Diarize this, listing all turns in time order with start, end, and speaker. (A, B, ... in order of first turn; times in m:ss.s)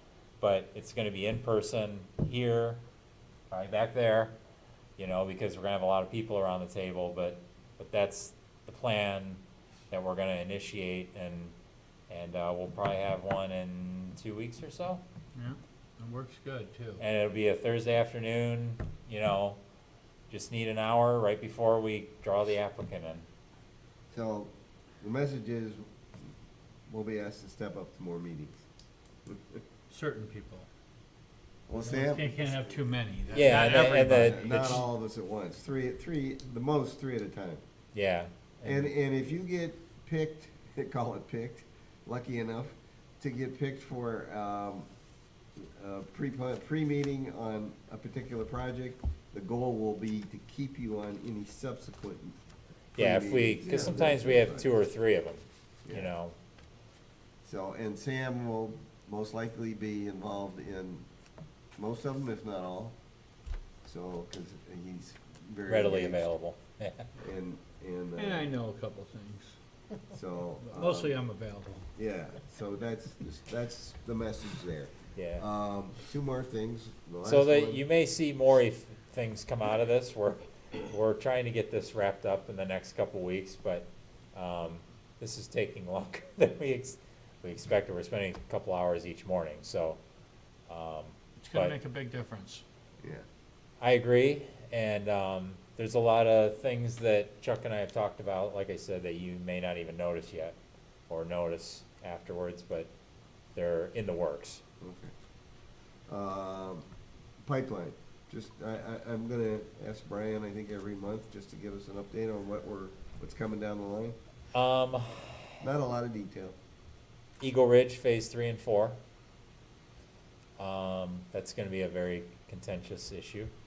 0:00.4-0:02.8 A
0:03.5-0:04.4 A
0:05.0-0:11.5 A
0:12.1-0:15.0 A
0:15.4-0:17.0 B
0:17.0-0:19.6 A
0:20.3-0:23.3 A
0:24.1-0:25.8 C
0:26.9-0:28.6 C
0:29.3-0:29.6 C
0:29.9-0:30.7 B
0:31.7-0:32.8 C
0:31.8-0:34.8 B
0:33.3-0:34.8 A
0:33.4-0:37.6 C
0:37.9-0:38.9 A
0:38.6-0:44.9 C
0:45.6-0:52.4 C
0:53.0-0:54.7 C
0:53.0-0:56.3 A
0:55.9-0:56.1 C
0:57.4-1:01.1 C
1:01.8-1:03.0 C
1:03.8-1:06.3 C
1:05.7-1:07.1 A
1:07.2-1:08.5 C
1:08.2-1:09.6 B
1:10.1-1:11.2 C
1:10.6-1:11.9 B
1:12.0-1:17.8 C
1:15.2-1:15.4 A
1:17.2-1:30.0 A
1:30.7-1:31.8 A
1:31.4-1:32.6 B
1:33.8-1:40.6 A
1:41.1-1:42.9 A
1:43.6-1:44.6 A
1:44.8-1:45.1 C
1:46.1-1:46.9 C
1:47.4-1:54.2 C
1:54.5-1:55.6 A
1:55.6-1:56.6 C
1:57.4-1:59.0 A
2:00.6-2:03.5 A